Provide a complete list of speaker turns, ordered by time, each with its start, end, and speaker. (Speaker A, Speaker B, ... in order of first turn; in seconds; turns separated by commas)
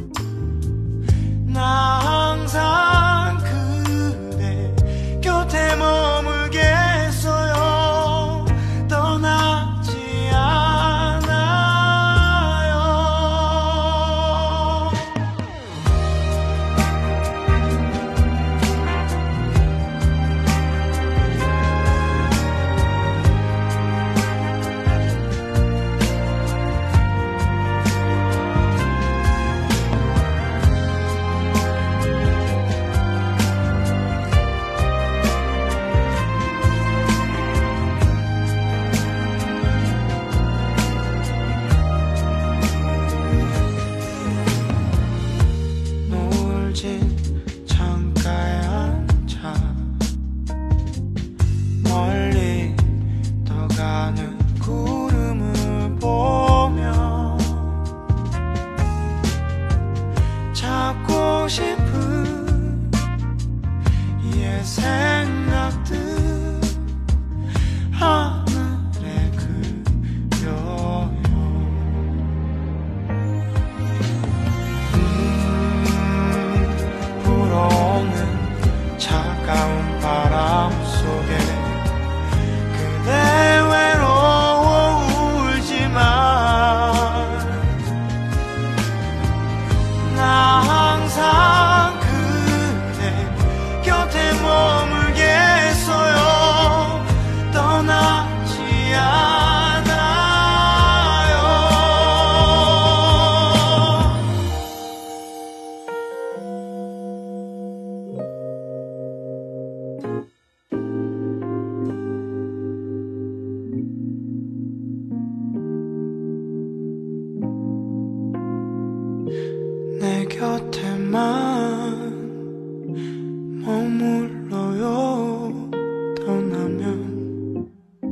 Speaker A: 1.4-15.1, Speaker A: 46.0-49.9, Speaker A: 51.8-57.8, Speaker A: 60.5-63.0, Speaker A: 64.2-66.8, Speaker A: 67.9-72.2, Speaker A: 74.9-81.9, Speaker A: 82.7-87.8, Speaker A: 90.0-104.1, Speaker A: 120.0-122.3, Speaker A: 123.6-127.3